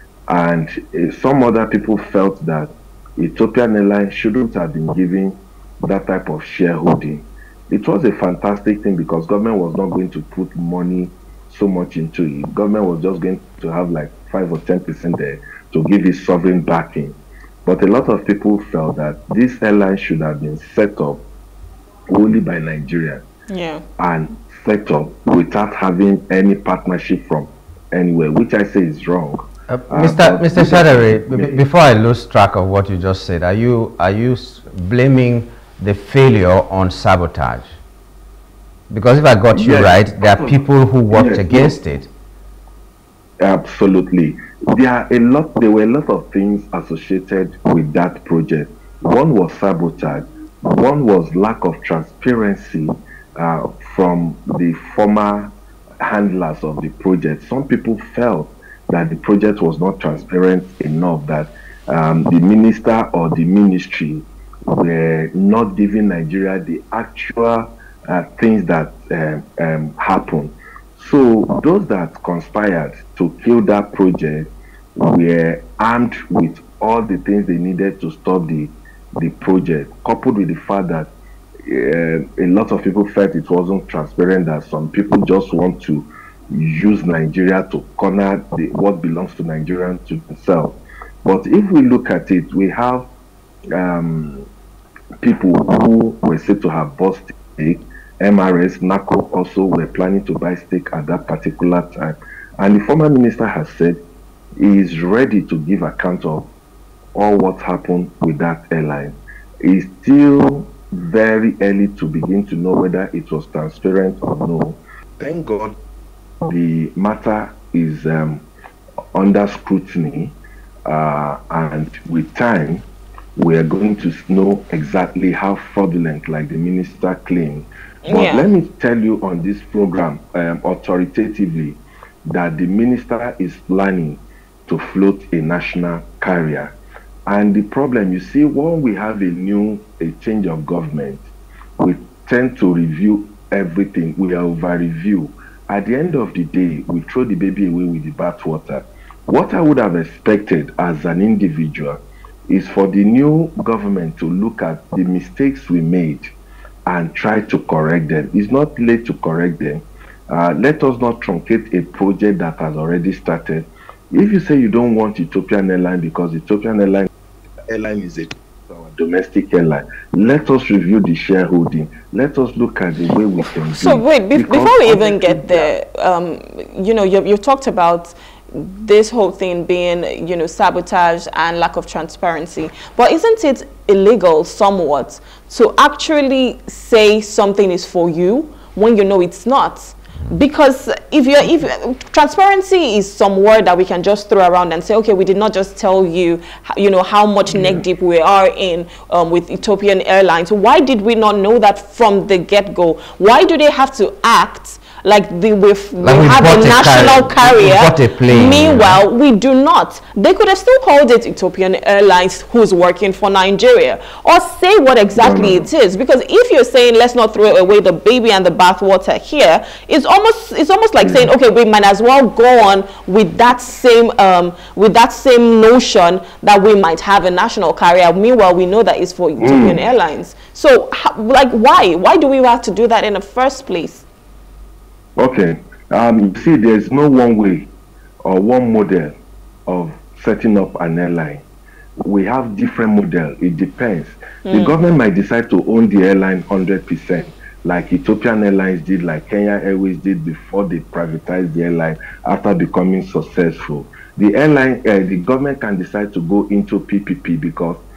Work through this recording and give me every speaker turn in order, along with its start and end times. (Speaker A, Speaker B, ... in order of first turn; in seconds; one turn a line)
Speaker A: 0.3-21.2
Speaker A: 22.1-23.2
Speaker B: 23.5-23.8
Speaker A: 24.0-31.6
Speaker C: 29.7-37.7
Speaker C: 38.9-42.1
Speaker A: 39.5-41.8
Speaker A: 43.4-81.1
Speaker A: 81.7-93.1
Speaker A: 93.8-94.5
Speaker A: 95.2-104.0
Speaker A: 104.6-106.5
Speaker A: 107.2-115.8
Speaker A: 116.5-118.5
Speaker A: 119.1-122.8
Speaker A: 123.4-136.7
Speaker B: 128.1-128.5
Speaker A: 137.3-141.2
Speaker A: 141.8-156.3
Speaker A: 156.9-167.1
Speaker A: 167.7-175.7
Speaker B: 173.6-234.1
Speaker A: 197.5-197.8
Speaker C: 206.0-209.0
Speaker A: 215.2-215.7
Speaker A: 221.0-221.3
Speaker A: 229.4-229.8
Speaker A: 235.2-237.7
Speaker A: 238.2-239.1
Speaker A: 239.7-241.4
Speaker A: 242.1-257.8
Speaker B: 244.5-244.8